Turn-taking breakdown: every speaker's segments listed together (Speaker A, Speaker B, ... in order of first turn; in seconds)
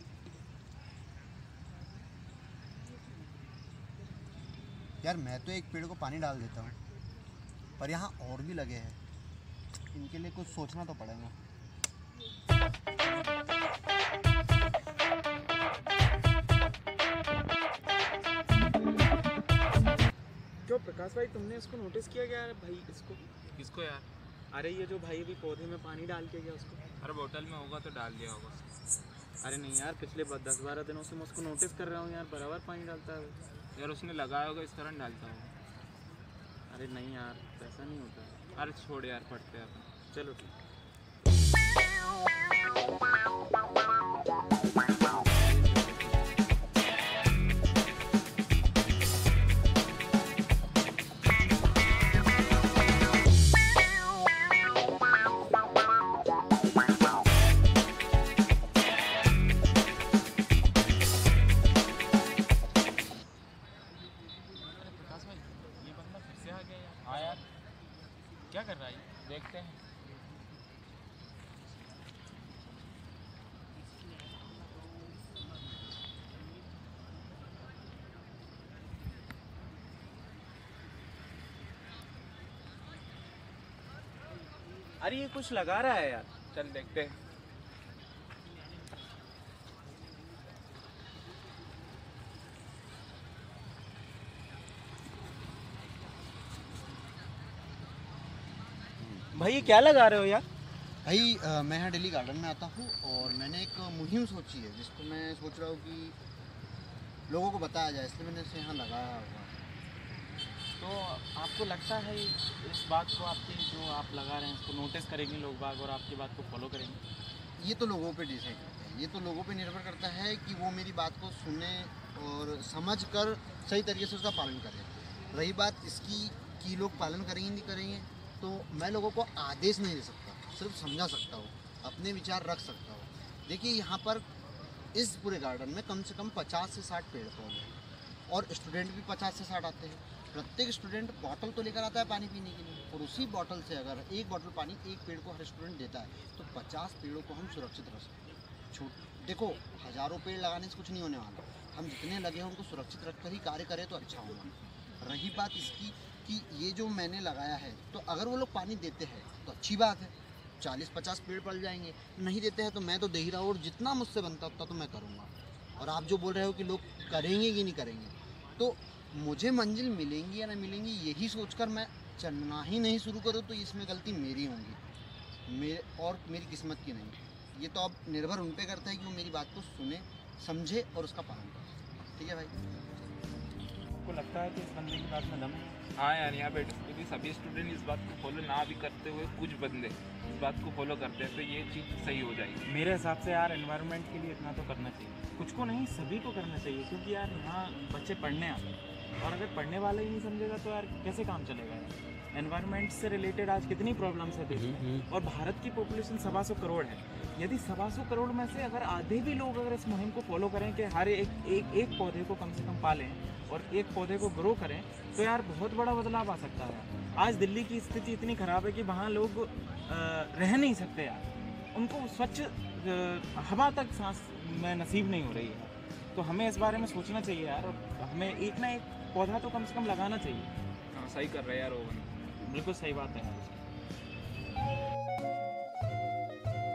Speaker A: 5.0-6.8, 7.8-9.0, 9.9-11.4, 99.0-99.8, 101.0-106.2, 107.3-109.6, 117.6-134.2, 134.9-137.8, 138.3-174.8, 175.5-182.6
Speaker B: 20.6-23.3, 24.5-26.8, 29.4-33.4, 36.7-38.4, 40.1-40.5, 64.7-67.5, 68.5-69.1, 85.0-86.3, 99.3-100.5, 110.8-117.0, 184.0-185.8, 192.6-198.7, 199.2-230.5, 232.4-233.6
Speaker C: 23.5-24.1, 27.0-28.7, 33.8-35.5, 38.5-39.9, 45.2-46.3, 67.0-67.4, 69.2-69.8, 86.4-87.2, 185.9-192.6, 230.9-232.2